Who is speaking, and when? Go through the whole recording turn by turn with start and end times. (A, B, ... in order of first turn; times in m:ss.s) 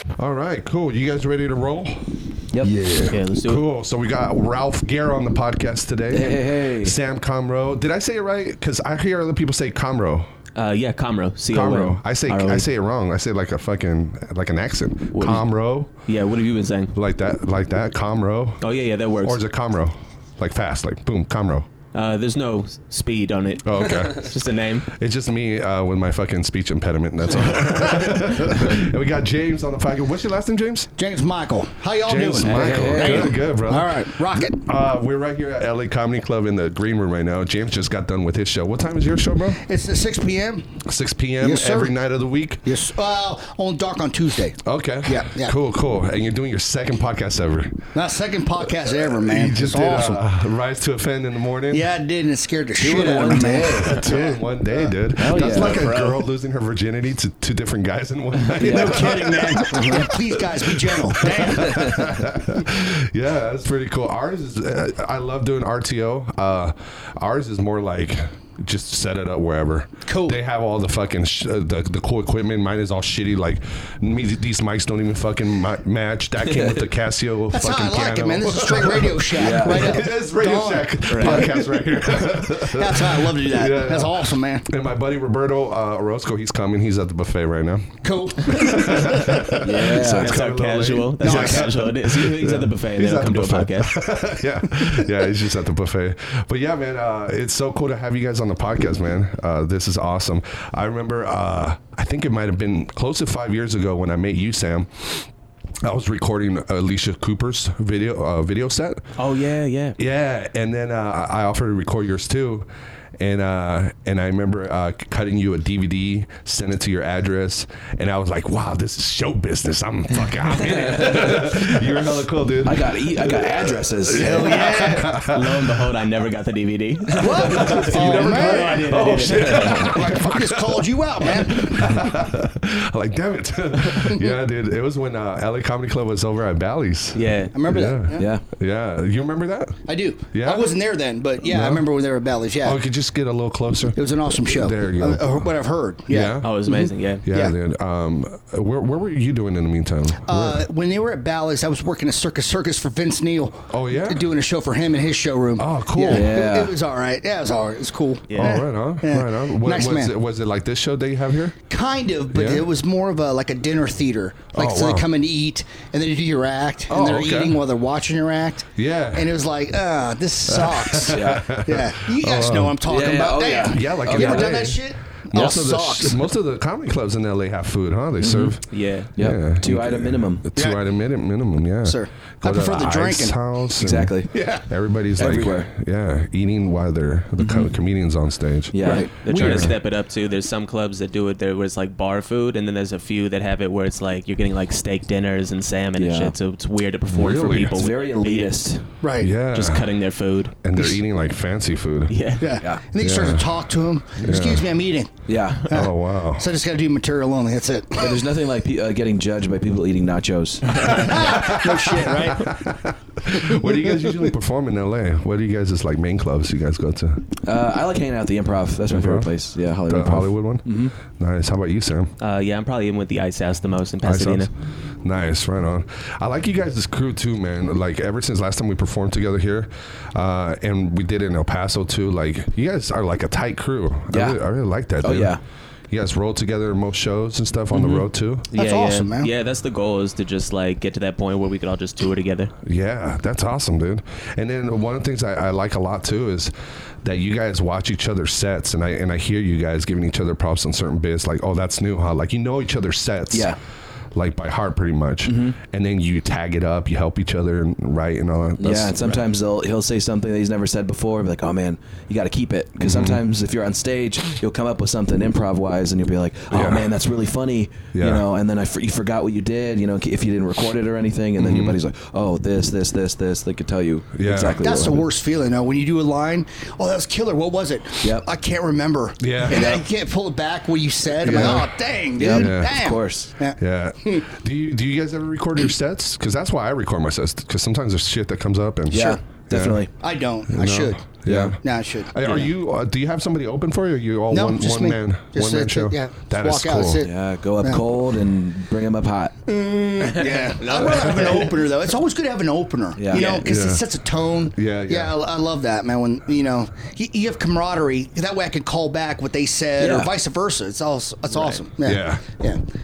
0:00.2-0:02.1 A
0:02.5-0:02.9 B
0:02.8-0:10.3 A
0:02.9-0:03.6 C
0:06.1-0:07.0 B
0:10.6-0:12.7 C
0:11.5-0:15.9 A
0:15.1-0:15.4 C
0:16.0-0:16.9 C
0:16.9-0:18.6 A
0:18.6-0:19.4 C
0:19.2-0:21.7 A
0:21.9-0:24.9 C
0:23.6-0:24.3 A
0:24.8-0:30.9 A
0:31.0-0:34.6 D
0:32.0-0:39.6 A
0:32.4-0:33.4 B
0:39.6-0:40.8 D
0:40.8-0:42.7 A
0:41.4-0:41.9 D
0:42.6-0:45.5 D
0:44.6-0:47.9 A
0:47.9-0:50.2 D
0:48.8-0:51.9 A
0:51.7-0:54.9 D
0:52.8-0:54.0 B
0:53.4-1:45.3 A
0:55.2-0:55.9 B
0:55.5-0:56.2 C
0:58.6-1:02.1 D
0:58.6-0:59.2 B
0:59.7-1:00.1 B
1:01.6-1:02.0 B
1:10.1-1:10.4 D
1:16.5-1:16.8 B
1:17.5-1:21.5 D
1:19.4-1:20.0 B
1:21.1-1:21.4 C
1:22.6-1:24.7 D
1:28.0-1:29.4 D
1:29.6-1:30.3 B
1:30.1-1:34.0 C
1:31.2-1:31.7 D
1:45.8-1:49.1 A
1:49.2-1:50.0 C
1:50.0-2:05.6 A
2:00.6-2:01.8 B
2:02.6-2:04.6 B
2:04.2-2:05.1 D
2:05.1-2:09.8 C
2:07.2-2:09.1 D
2:07.6-2:20.7 A
2:09.7-2:12.0 D
2:14.0-2:14.3 D
2:17.1-2:17.5 C
2:17.5-2:18.3 D
2:18.2-2:18.4 B
2:19.9-2:22.8 D
2:21.4-2:21.9 A
2:22.6-2:25.5 A
2:24.0-2:27.6 D
2:26.1-2:26.5 A
2:26.4-2:27.2 C
2:27.2-2:30.6 A
2:30.2-2:40.1 D
2:33.7-2:34.3 A
2:35.6-2:36.4 A
2:36.1-2:36.8 B
2:38.3-2:38.6 C
2:38.4-2:41.6 A
2:41.7-2:56.2 D
2:42.3-2:42.7 A
2:44.5-2:45.1 A
2:46.9-2:47.6 A
2:48.8-2:49.3 A
2:50.5-2:52.8 A
2:51.1-2:51.5 B
2:52.9-2:54.6 B
2:53.6-2:58.6 A
2:58.2-2:58.6 B
2:58.7-2:59.1 C
2:59.1-3:09.8 A
2:59.2-3:00.5 B
3:00.6-3:00.8 D
3:01.8-3:03.4 D
3:03.8-3:04.4 B
3:04.4-3:04.6 D
3:05.2-3:05.7 B
3:07.4-3:07.7 B
3:08.7-3:09.7 B
3:08.8-3:09.1 D
3:09.2-3:18.6 C
3:16.0-3:16.3 B
3:17.1-3:17.8 A
3:17.7-3:18.8 B
3:19.0-3:19.3 D
3:19.2-3:19.9 A
3:19.5-3:20.6 C
3:20.6-3:22.1 A
3:22.1-3:22.4 C
3:22.4-3:25.1 D
3:23.0-3:23.5 A
3:24.2-3:24.7 A
3:25.3-3:25.7 B
3:25.7-3:28.2 D
3:25.7-3:26.5 A
3:28.0-3:31.0 B
3:30.8-3:32.6 D
3:31.1-3:37.2 A
3:33.5-3:34.2 D
3:37.4-3:40.9 B
3:38.9-3:39.3 A
3:39.9-3:42.1 A
3:42.2-3:44.5 C
3:44.0-3:44.5 A
3:45.0-3:55.4 A
3:54.1-3:54.4 B
3:55.0-3:55.4 B
3:55.9-3:58.5 A
3:58.5-4:02.5 C
3:58.6-3:59.3 D
4:02.6-4:06.5 A
4:07.0-4:13.6 A
4:13.3-4:13.6 B
4:14.1-4:19.2 A
4:15.2-4:15.6 B
4:18.6-4:35.1 B
4:22.8-4:23.2 A
4:26.5-4:26.9 A
4:27.9-4:28.3 A
4:31.4-4:31.8 A
4:34.2-4:34.6 A
4:34.6-4:44.3 D
4:39.2-4:39.7 A
4:39.5-4:39.8 B
4:41.2-4:42.9 A
4:41.3-4:41.6 B
4:42.2-4:43.3 B
4:43.6-4:49.9 A
4:48.9-4:49.9 B
4:48.9-4:49.2 D
4:50.0-4:51.0 D
4:50.5-4:51.6 A
4:51.3-4:51.6 B
4:51.6-4:52.5 D
4:52.1-4:57.1 A
4:54.3-4:57.8 D
4:57.0-4:59.4 B
4:59.5-5:12.6 D
5:00.0-5:01.5 C
5:03.0-5:03.4 B
5:03.1-5:03.4 C
5:03.4-5:03.8 A
5:04.5-5:05.2 A
5:09.8-5:10.1 B
5:11.3-5:11.6 C
5:11.8-5:12.4 A